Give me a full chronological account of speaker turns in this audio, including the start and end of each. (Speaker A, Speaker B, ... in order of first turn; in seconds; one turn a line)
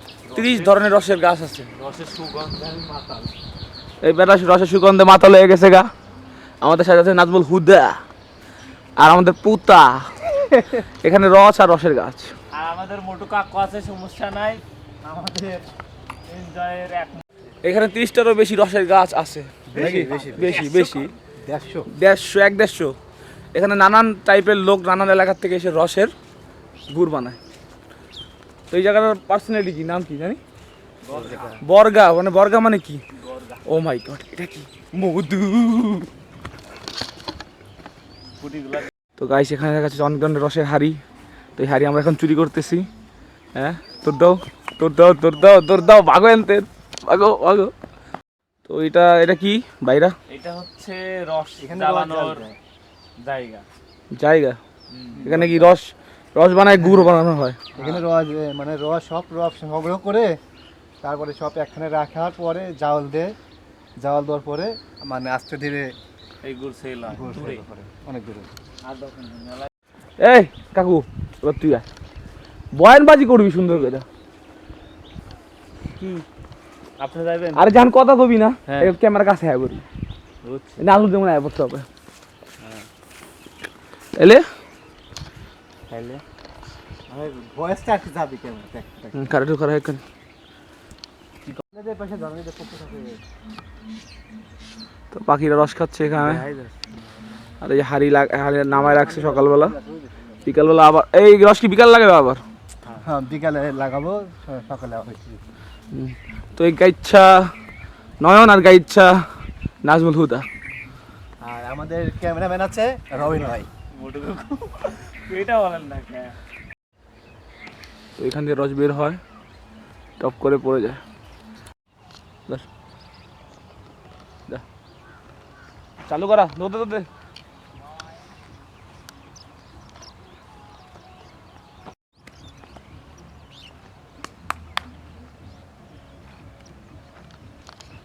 Speaker A: 0.2-0.7
Speaker B: 0.3-1.7
Speaker A: 1.7-3.3
Speaker B: 4.0-5.9
Speaker B: 6.6-8.0
Speaker B: 9.0-10.1
Speaker B: 10.6-12.3
Speaker A: 12.5-14.6
Speaker C: 15.0-15.6
Speaker A: 16.3-17.2
Speaker B: 17.6-21.1
Speaker C: 19.7-20.7
Speaker A: 19.7-21.1
Speaker C: 21.4-21.9
Speaker B: 21.9-22.9
Speaker B: 23.5-26.1
Speaker B: 26.9-27.4
Speaker B: 28.7-30.4
Speaker A: 31.0-31.6
Speaker C: 31.1-31.6
Speaker B: 31.6-33.0
Speaker A: 33.2-33.6
Speaker B: 33.6-36.1
Speaker A: 38.4-38.9
Speaker B: 39.2-41.0
Speaker B: 41.6-42.9
Speaker B: 43.5-47.7
Speaker B: 48.6-50.1
Speaker A: 50.3-52.5
Speaker C: 51.6-52.5
Speaker A: 53.2-53.6
Speaker B: 54.1-54.6
Speaker A: 54.9-55.3
Speaker C: 55.2-55.8
Speaker B: 55.2-57.6
Speaker C: 56.8-57.1
Speaker A: 57.7-58.0
Speaker C: 57.7-60.3
Speaker C: 61.0-63.3
Speaker C: 64.0-65.9
Speaker A: 66.4-67.6
Speaker C: 67.0-68.5
Speaker A: 68.8-69.7
Speaker B: 70.2-71.8
Speaker B: 72.7-74.0
Speaker A: 73.6-73.9
Speaker A: 76.0-76.2
Speaker A: 77.0-77.7
Speaker B: 77.5-79.8
Speaker A: 78.7-78.9
Speaker A: 80.4-80.8
Speaker B: 80.8-81.9
Speaker B: 84.1-84.4
Speaker C: 85.9-86.2
Speaker C: 87.1-89.3
Speaker B: 89.1-90.0
Speaker C: 91.5-93.2
Speaker B: 95.1-96.5
Speaker C: 96.1-96.8
Speaker B: 97.6-99.8
Speaker C: 98.7-100.4
Speaker B: 100.4-102.4
Speaker C: 103.0-105.4
Speaker B: 105.9-107.5
Speaker B: 108.2-109.3
Speaker B: 109.8-110.5
Speaker C: 111.4-113.7
Speaker A: 113.1-116.3
Speaker B: 118.2-119.2
Speaker B: 120.2-121.0
Speaker B: 126.1-127.1